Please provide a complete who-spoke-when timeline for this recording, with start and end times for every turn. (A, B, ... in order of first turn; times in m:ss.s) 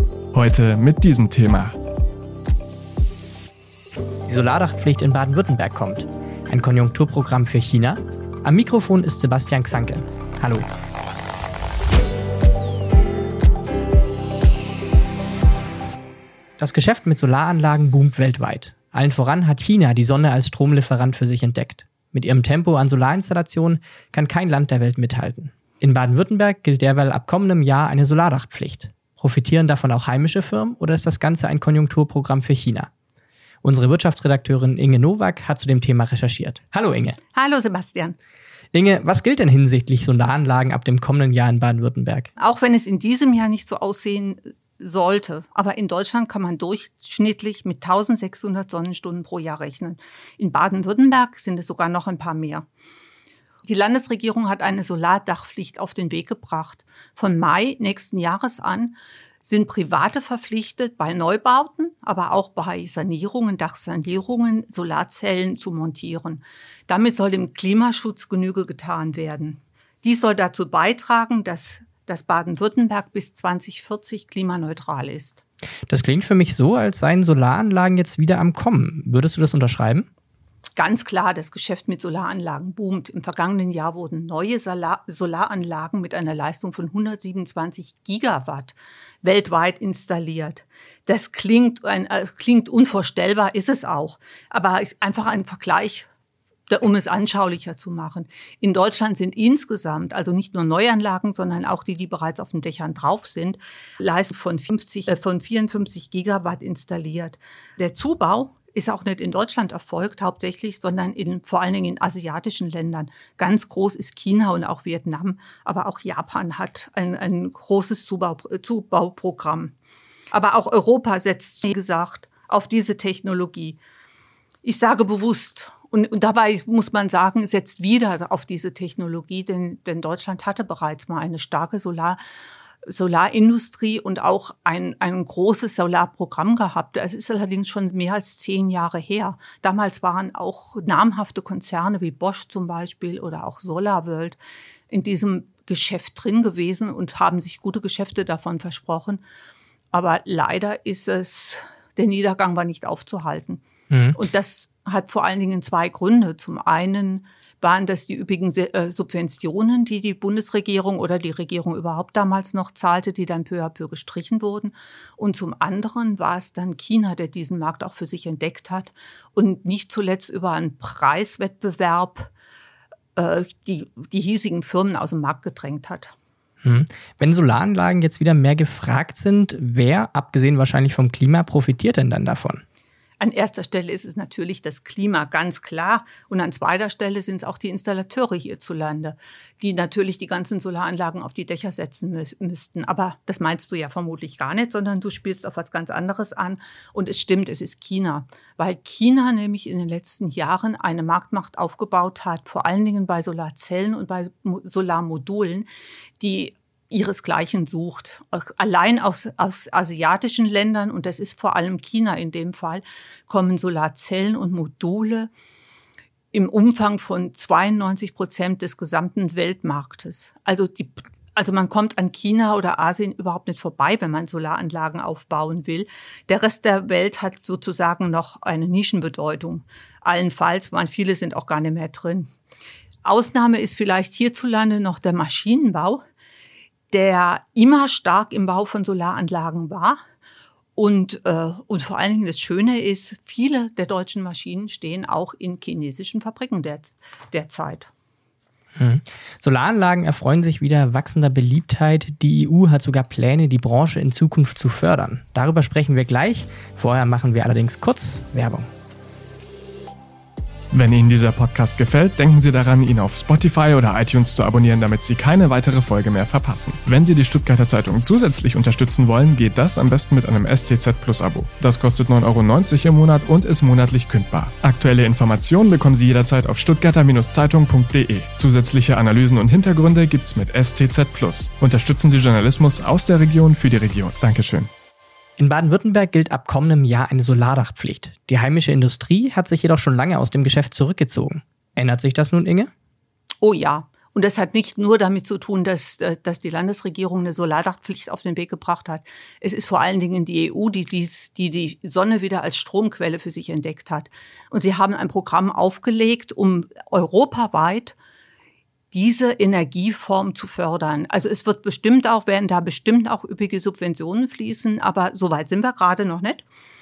0:00.3-0:01.8 A
0:04.2-0:10.7 B
0:16.6-0:32.9 B
0:33.6-0:37.2 B
0:37.3-0:38.2 C
0:38.7-0:42.3 B
0:42.4-0:52.6 C
0:53.6-1:15.4 C
1:15.9-1:20.1 B
1:20.8-1:36.1 C
1:36.7-1:59.7 C
2:00.3-2:03.8 C
2:04.6-2:12.2 C
2:12.8-2:24.4 C
2:24.9-2:29.2 C
2:29.9-2:52.3 C
2:33.9-2:34.2 B
2:53.2-2:56.1 C
2:56.6-3:02.6 B
3:03.2-3:25.7 C
3:26.2-3:35.3 C
3:36.3-3:52.3 C
3:53.0-3:56.0 C
3:56.9-4:00.0 C
4:00.8-4:07.9 C
4:08.8-4:18.7 B
4:20.7-4:44.7 A
4:45.4-4:52.7 B
4:53.4-5:08.0 C
5:08.9-5:16.4 C